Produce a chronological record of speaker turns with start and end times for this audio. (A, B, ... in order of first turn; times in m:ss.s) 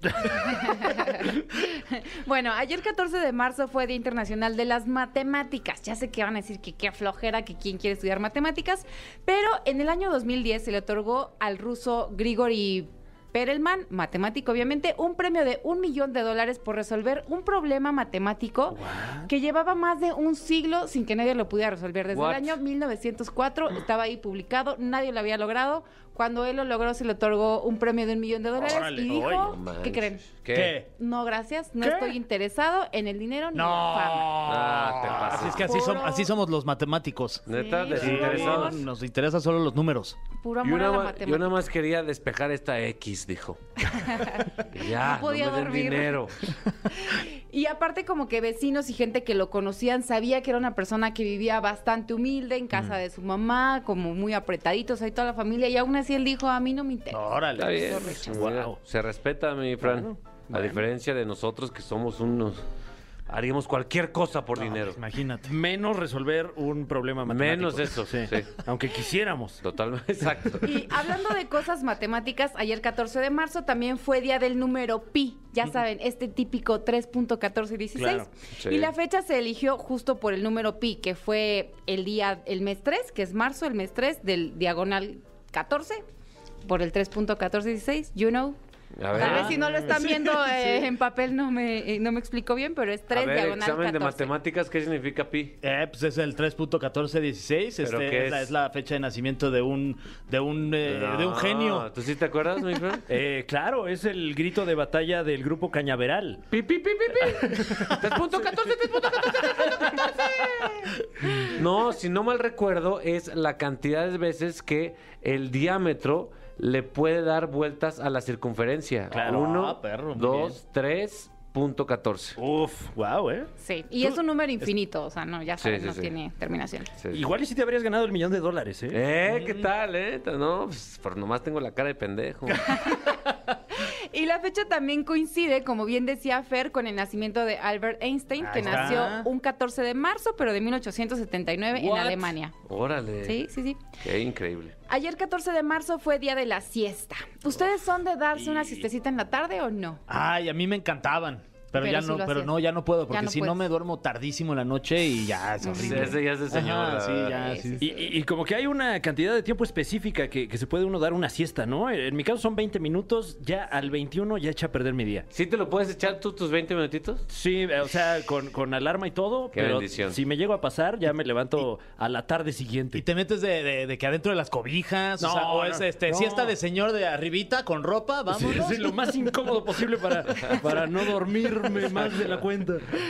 0:00.4-0:34.4 A
0:18.7-0:19.3 B
0:22.1-0:22.6 C
0:28.6-0:29.6 D
0:29.5-0:30.8 C
0:30.5-0:30.9 D
0:31.8-0:32.2 D
0:33.5-0:40.2 D
0:34.4-0:35.7 C
0:35.5-0:36.3 A
0:37.5-0:38.8 C
0:37.5-0:38.8 A
0:40.4-0:41.5 A
0:40.6-0:43.6 C
0:43.9-0:46.2 A
0:44.7-0:46.5 C
0:46.9-0:58.3 A
0:57.1-0:58.2 D
0:57.6-1:02.6 C
0:58.2-0:58.8 B
0:59.8-1:00.9 B
1:03.3-1:05.0 C
1:04.6-1:05.5 D
1:05.4-1:09.6 B
1:07.3-1:08.6 C
1:09.6-1:10.8 C
1:10.6-1:26.0 A
1:18.0-1:18.3 B
1:18.6-1:18.9 C
1:26.6-1:28.6 A
1:29.0-1:29.9 C
1:29.1-1:34.3 A
1:29.2-1:30.0 D
1:30.5-1:30.8 D
1:33.1-1:35.6 C
1:35.6-1:41.9 D
1:37.8-1:38.5 C
1:40.8-1:43.1 C
1:43.1-1:46.4 B
1:46.5-1:50.9 C
1:47.5-1:47.9 B
1:51.5-2:02.4 C
1:59.1-1:59.5 B
1:59.1-2:00.6 D
2:02.4-2:04.2 B
2:03.6-2:06.9 A
2:05.6-2:06.1 C
2:07.0-2:07.3 C
2:07.1-2:09.0 B
2:08.9-2:12.8 C
2:09.3-2:09.7 D
2:12.7-2:22.5 A
2:18.4-2:19.3 D
2:18.7-2:19.1 B
2:21.7-2:23.4 C
2:23.2-2:23.8 A
2:24.0-2:24.7 C
2:24.9-2:30.0 A
2:30.1-2:37.9 D
2:31.8-2:33.6 A
2:35.6-2:36.2 A
2:35.8-2:37.5 C
2:37.3-2:38.2 A
2:37.8-2:45.3 B
2:45.3-2:47.2 C
2:47.3-2:53.0 B
2:49.5-2:50.2 C
2:52.9-2:58.9 D
2:55.2-2:56.6 B
2:58.3-3:02.9 B
3:00.4-3:00.7 C